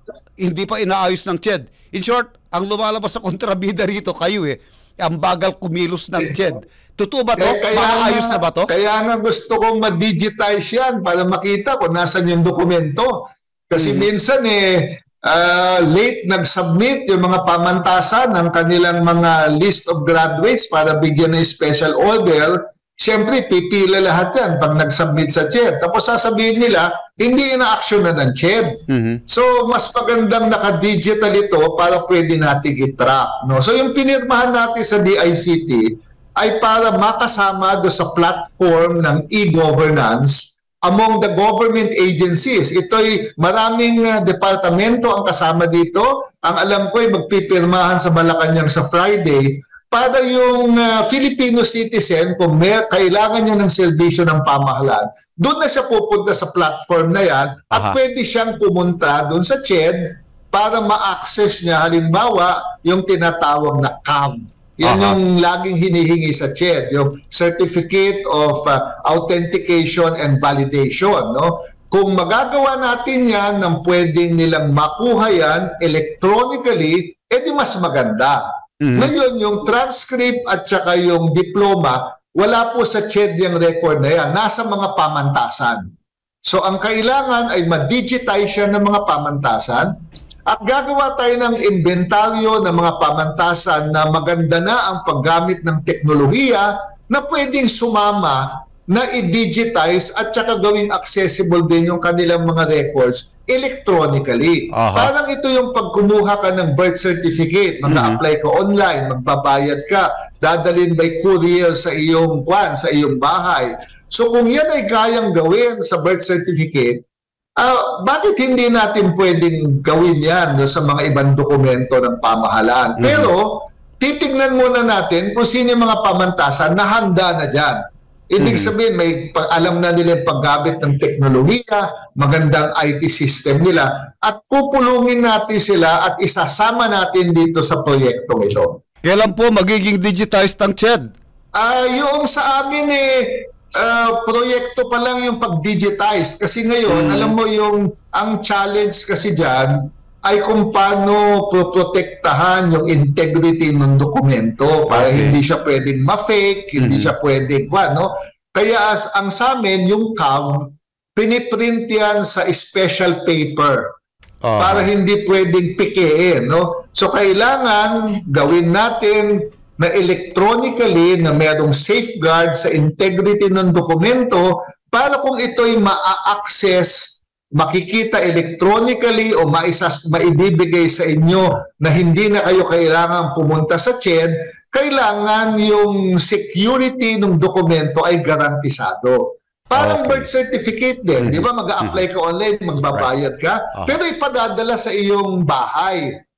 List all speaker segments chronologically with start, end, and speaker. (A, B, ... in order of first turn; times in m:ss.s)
0:00.4-0:08.7 A
0:07.4-1:18.4 B
0:13.8-0:14.1 A
0:28.9-0:29.2 A
0:57.7-0:58.0 A
1:04.8-1:05.2 A
1:18.8-1:19.1 A
1:18.9-1:25.8 B
1:26.4-1:29.9 B
1:30.5-1:57.0 B
1:44.7-1:45.1 A
1:47.9-1:48.2 A
1:57.6-2:07.8 B
2:03.0-2:03.3 A
2:08.3-2:18.8 B
2:08.4-2:08.7 A
2:19.0-2:21.0 A
2:21.6-2:43.9 B
2:26.9-2:27.4 A
2:34.9-2:35.4 A
2:36.8-2:37.1 A
2:44.4-2:44.9 A
2:44.6-3:16.2 B
3:09.8-3:10.3 A
3:11.2-3:12.0 A